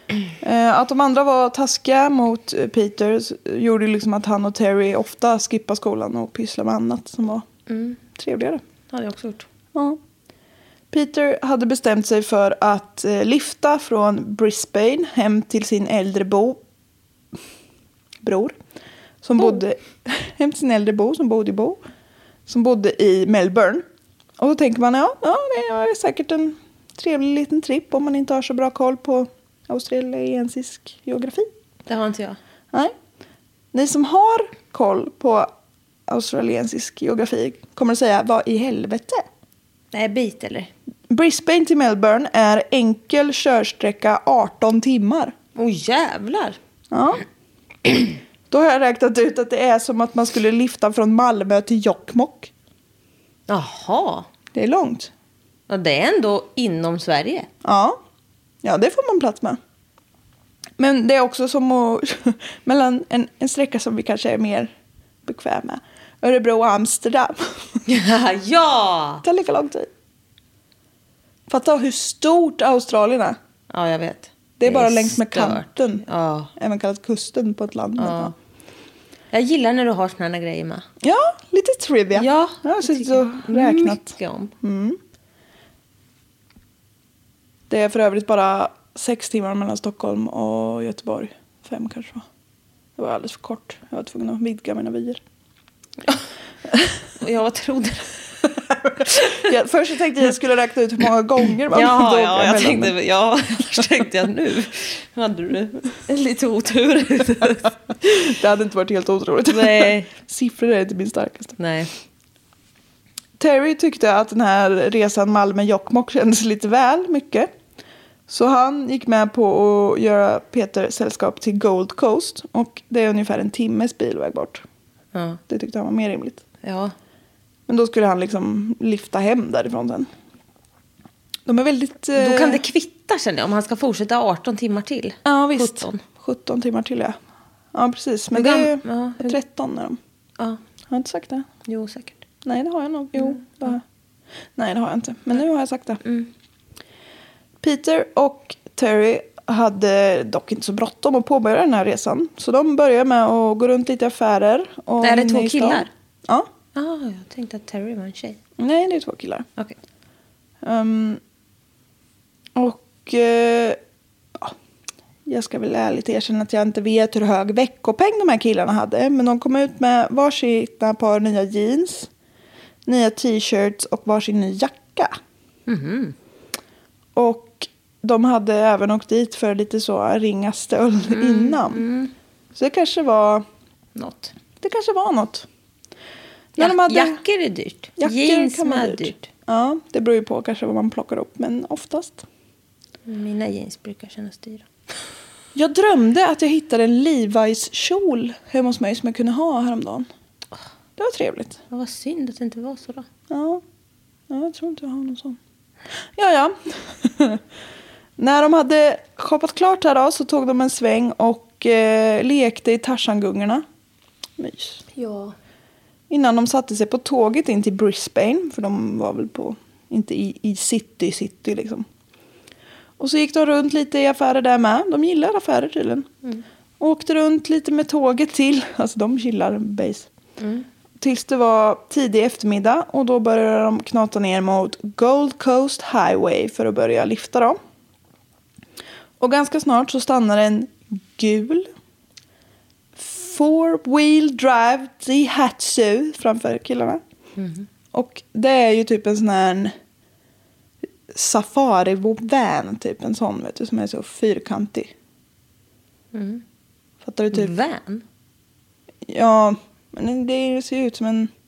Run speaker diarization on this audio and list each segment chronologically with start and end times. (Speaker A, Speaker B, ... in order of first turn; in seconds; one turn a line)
Speaker A: 0.4-7.5
Speaker B: 7.7-8.0
Speaker A: 8.2-8.6
Speaker B: 8.9-9.4
Speaker A: 9.7-10.0
Speaker A: 10.9-16.6
Speaker A: 18.2-18.6
Speaker A: 19.2-21.8
Speaker A: 22.5-23.8
Speaker A: 24.4-31.5
Speaker B: 31.9-32.4
Speaker A: 33.7-35.5
Speaker A: 36.1-39.2
Speaker B: 39.9-40.7
Speaker A: 41.1-45.3
Speaker B: 45.5-46.6
Speaker A: 46.9-47.2
Speaker A: 48.5-52.5
Speaker B: 53.5-54.3
Speaker A: 54.5-55.1
Speaker B: 55.7-57.5
Speaker A: 57.6-58.0
Speaker A: 58.6-59.6
Speaker A: 60.8-64.7
Speaker A: 65.2-67.8
Speaker B: 67.9-69.2
Speaker A: 69.2-69.9
Speaker A: 71.5-73.4
Speaker B: 73.7-76.5
Speaker A: 74.6-76.0
Speaker A: 76.6-78.3
Speaker B: 78.0-78.3
Speaker B: 79.3-80.8
Speaker A: 81.0-84.1
Speaker B: 82.1-84.5
Speaker A: 84.6-85.0
Speaker A: 87.7-92.2
Speaker A: 93.0-95.2
Speaker B: 97.2-98.1
Speaker B: 99.1-99.4
Speaker A: 99.3-102.9
Speaker B: 101.7-107.8
Speaker A: 108.2-111.6
Speaker B: 109.5-110.1
Speaker B: 111.6-111.9
Speaker A: 113.4-117.5
Speaker A: 118.3-124.6
Speaker B: 125.1-125.4
Speaker A: 125.5-126.4
Speaker B: 126.6-126.9
Speaker A: 127.7-130.1
Speaker A: 131.4-132.6
Speaker B: 132.2-136.0
Speaker A: 135.2-137.2
Speaker A: 137.7-140.0
Speaker B: 138.3-139.4
Speaker A: 140.9-141.5
Speaker B: 141.6-142.2
Speaker A: 142.4-143.8
Speaker A: 144.6-146.0
Speaker B: 146.0-146.3
Speaker A: 147.6-156.5
Speaker B: 155.0-155.9
Speaker B: 156.7-158.4
Speaker A: 158.6-159.4
Speaker A: 160.6-161.2
Speaker A: 162.6-163.8
Speaker A: 165.2-172.1
Speaker A: 172.8-175.1
Speaker B: 175.7-176.1
Speaker A: 177.1-181.8
Speaker B: 181.1-182.1
Speaker A: 182.5-183.4
Speaker B: 183.9-184.3
Speaker A: 184.6-185.4
Speaker A: 186.5-187.2
Speaker B: 186.6-189.3
Speaker A: 188.0-192.2
Speaker B: 193.1-194.6
Speaker A: 195.5-200.1
Speaker A: 201.0-201.6
Speaker B: 201.7-203.1
Speaker A: 203.3-203.6
Speaker A: 204.3-205.4
Speaker A: 206.1-207.4
Speaker A: 208.2-213.6
Speaker A: 214.4-214.8
Speaker B: 214.9-215.3
Speaker A: 216.1-221.8
Speaker A: 223.0-226.1
Speaker A: 226.8-230.1
Speaker B: 230.4-230.7
Speaker A: 231.0-237.6
Speaker A: 239.2-241.7
Speaker A: 242.9-247.0
Speaker B: 247.4-247.7
Speaker A: 247.9-249.7
Speaker A: 251.1-254.9
Speaker B: 256.1-256.4
Speaker A: 257.0-257.5
Speaker B: 257.3-258.0
Speaker A: 259.1-261.3